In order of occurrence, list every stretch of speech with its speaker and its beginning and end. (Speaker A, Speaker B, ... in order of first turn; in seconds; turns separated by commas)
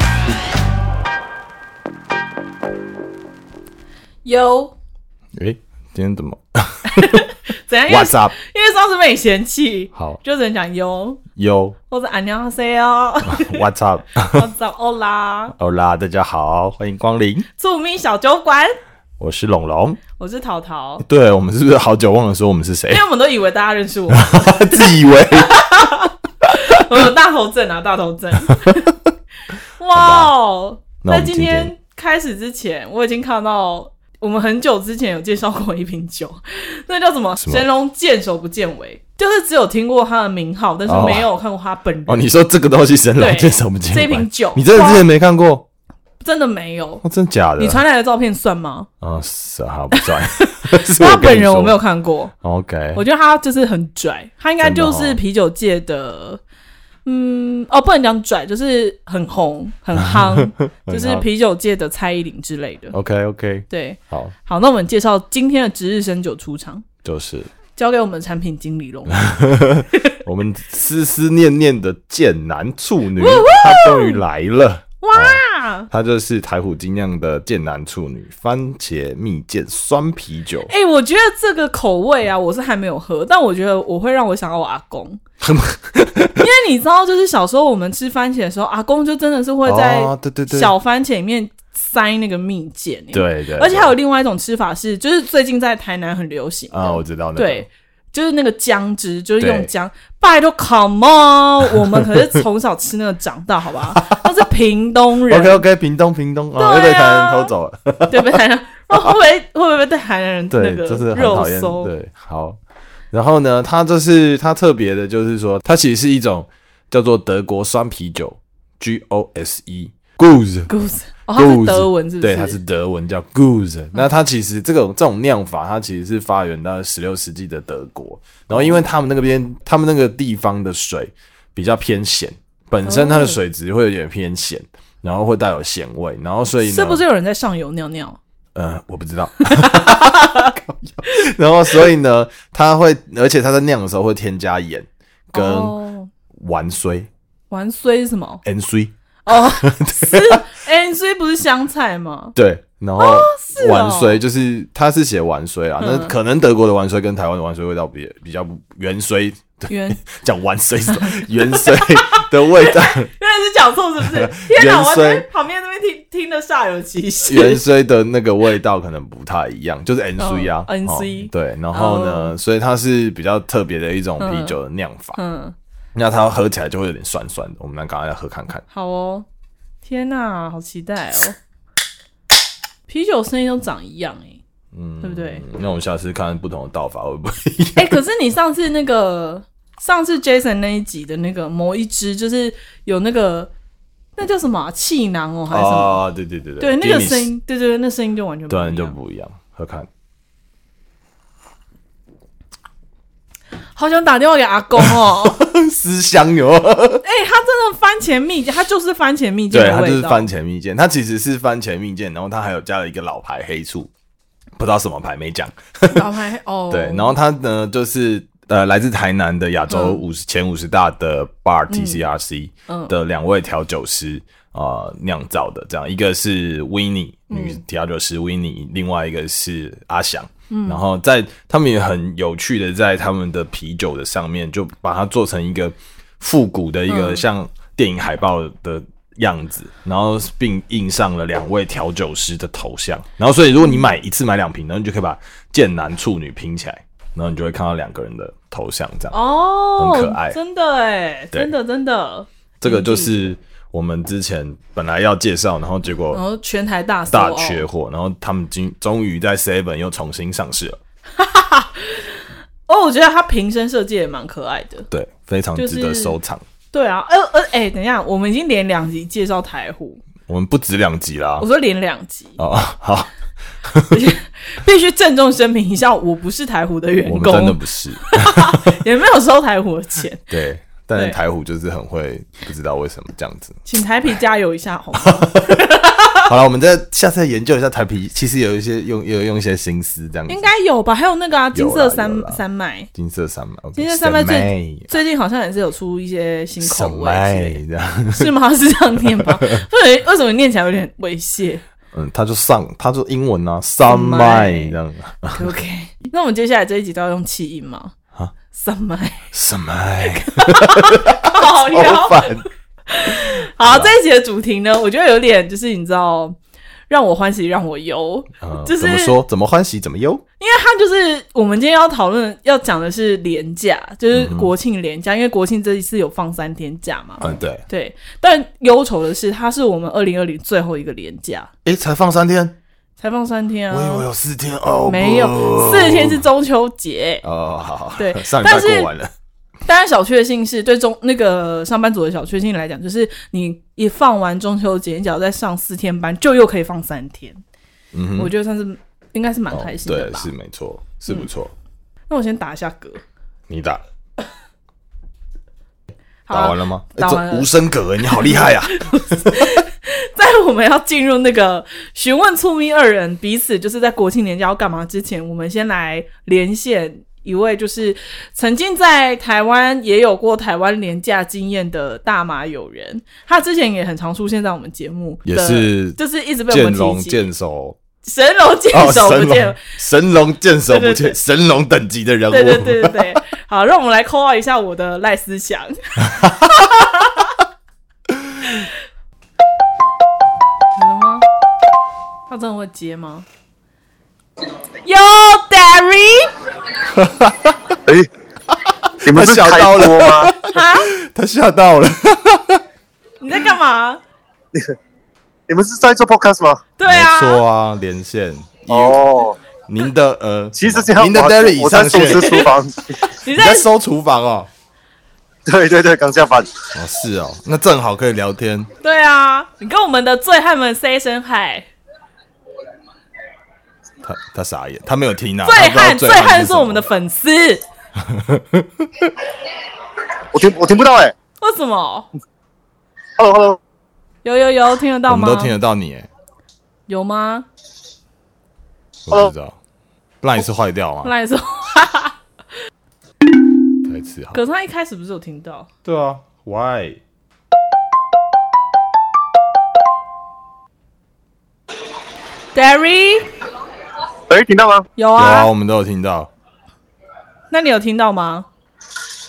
Speaker A: 4.2-4.8, Speaker B: 5.3-7.2, Speaker A: 6.9-11.2, Speaker B: 7.9-8.3, Speaker B: 11.3-11.8, Speaker A: 11.9-13.6, Speaker B: 13.2-14.5, Speaker A: 14.3-15.5, Speaker B: 15.6-17.5, Speaker A: 17.5-18.8, Speaker B: 19.2-20.0, Speaker A: 20.2-21.0, Speaker B: 21.0-23.0, Speaker A: 22.9-29.0, Speaker B: 24.1-25.9, Speaker A: 29.8-42.3, Speaker B: 29.9-30.3, Speaker B: 31.0-31.7, Speaker B: 40.9-41.3, Speaker B: 42.1-45.6, Speaker A: 43.2-45.0, Speaker A: 46.2-47.0, Speaker B: 47.0-47.8, Speaker A: 47.6-48.9, Speaker B: 49.0-51.8, Speaker A: 49.9-52.3, Speaker B: 52.4-53.0, Speaker A: 52.9-56.4, Speaker B: 54.6-55.2, Speaker A: 57.0-63.0, Speaker B: 60.0-61.2, Speaker B: 62.9-64.3, Speaker A: 63.7-66.8, Speaker B: 67.0-67.5, Speaker A: 67.7-69.2, Speaker B: 69.1-80.7, Speaker A: 69.9-70.2, Speaker A: 73.2-74.2, Speaker A: 75.0-75.9, Speaker A: 80.7-85.2, Speaker B: 85.4-86.4, Speaker A: 86.3-105.6, Speaker B: 89.7-90.7, Speaker B: 93.1-93.9, Speaker B: 96.7-97.7, Speaker B: 99.4-99.7, Speaker B: 105.3-108.4, Speaker A: 106.6-107.5, Speaker A: 108.1-111.9, Speaker B: 110.5-112.6, Speaker B: 113.1-120.7, Speaker A: 120.7-122.6, Speaker B: 121.3-137.0, Speaker A: 128.5-128.8, Speaker A: 132.8-133.4, Speaker A: 136.6-138.2, Speaker B: 138.5-145.8, Speaker A: 139.4-140.5, Speaker A: 145.3-146.1, Speaker B: 146.3-147.1, Speaker A: 147.5-148.4, Speaker B: 148.4-150.4, Speaker A: 149.2-152.3, Speaker B: 152.3-163.1, Speaker A: 153.0-154.2, Speaker A: 155.8-156.1, Speaker A: 159.7-160.0, Speaker A: 160.9-167.6, Speaker B: 164.0-165.2, Speaker B: 167.3-175.2, Speaker A: 170.2-172.3, Speaker A: 174.2-174.6, Speaker A: 175.2-175.5, Speaker B: 175.9-178.6, Speaker A: 178.7-179.2, Speaker A: 179.8-181.4, Speaker A: 182.9-184.4, Speaker B: 184.7-188.0, Speaker A: 185.0-185.4, Speaker A: 187.8-193.5, Speaker A: 194.2-196.0, Speaker B: 195.5-197.3, Speaker A: 196.6-198.9, Speaker B: 198.5-199.9, Speaker A: 203.7-205.4, Speaker B: 204.8-207.0, Speaker A: 207.0-210.3, Speaker B: 209.5-213.9, Speaker B: 214.6-216.1, Speaker A: 215.9-217.2, Speaker B: 216.7-249.1, Speaker A: 219.7-220.0, Speaker A: 221.7-222.0, Speaker A: 222.7-222.9, Speaker A: 227.3-227.6, Speaker A: 230.5-230.8, Speaker A: 236.9-237.2, Speaker A: 249.1-253.2, Speaker B: 249.8-250.4, Speaker B: 252.6-256.2, Speaker A: 256.1-257.6, Speaker B: 257.1-260.8, Speaker A: 261.2-264.9, Speaker B: 264.9-266.4, Speaker A: 265.5-266.2, Speaker A: 266.7-270.0, Speaker B: 270.3-271.5, Speaker A: 271.4-272.4, Speaker B: 272.4-273.1, Speaker B: 273.6-274.1, Speaker A: 273.9-280.2, Speaker B: 277.1-278.8, Speaker B: 280.3-283.6, Speaker A: 283.6-286.3, Speaker B: 285.0-285.6, Speaker B: 286.2-290.4, Speaker A: 290.3-292.9, Speaker B: 291.5-292.4, Speaker B: 292.9-294.9, Speaker A: 293.8-301.6, Speaker B: 296.6-298.3, Speaker B: 298.9-299.6, Speaker B: 301.9-305.5, Speaker A: 303.9-304.8, Speaker A: 305.3-307.9, Speaker A: 308.5-309.3, Speaker B: 309.3-312.4, Speaker A: 310.0-316.4, Speaker B: 313.0-313.9, Speaker A: 316.9-319.1, Speaker B: 318.4-320.2, Speaker A: 320.4-331.5, Speaker B: 324.1-324.5, Speaker B: 327.2-327.6, Speaker B: 331.6-332.5, Speaker A: 333.0-334.1, Speaker B: 333.7-336.2, Speaker A: 334.9-337.2, Speaker B: 337.2-339.1, Speaker A: 338.0-338.9, Speaker A: 339.6-347.4, Speaker B: 347.9-348.3, Speaker A: 348.1-350.3, Speaker B: 349.5-351.5, Speaker A: 352.1-353.0, Speaker B: 353.5-353.8, Speaker A: 356.3-357.5, Speaker B: 356.3-359.5, Speaker A: 358.1-377.2, Speaker B: 375.2-376.0, Speaker B: 376.5-377.8, Speaker A: 378.0-379.6, Speaker B: 378.7-383.2, Speaker A: 380.7-381.1, Speaker A: 382.3-387.3, Speaker A: 390.8-391.2, Speaker A: 392.3-393.2, Speaker A: 394.8-396.3, Speaker B: 396.9-397.8, Speaker B: 399.0-402.6, Speaker C: 399.0-400.3, Speaker A: 400.5-400.9, Speaker A: 403.2-404.0, Speaker C: 405.5-406.6, Speaker A: 406.8-407.4, Speaker B: 406.8-409.0, Speaker C: 408.7-409.4, Speaker B: 409.7-412.5, Speaker C: 410.6-412.9, Speaker A: 412.0-412.5, Speaker A: 413.1-413.7, Speaker B: 413.3-414.5, Speaker C: 415.4-416.5, Speaker B: 416.7-418.7, Speaker A: 418.8-421.7, Speaker B: 424.0-426.8, Speaker A: 425.4-427.6, Speaker B: 428.0-429.1, Speaker C: 430.3-431.1, Speaker A: 431.4-432.1, Speaker C: 433.2-433.6, Speaker A: 434.2-435.5, Speaker B: 435.1-436.1, Speaker A: 436.9-437.5, Speaker B: 439.1-439.6, Speaker B: 440.2-441.1, Speaker A: 441.0-442.1, Speaker B: 443.8-444.4, Speaker A: 444.3-445.7, Speaker B: 445.8-447.0, Speaker A: 452.5-453.3, Speaker C: 454.3-454.9, Speaker A: 455.0-455.5, Speaker B: 455.1-456.3, Speaker A: 457.5-458.4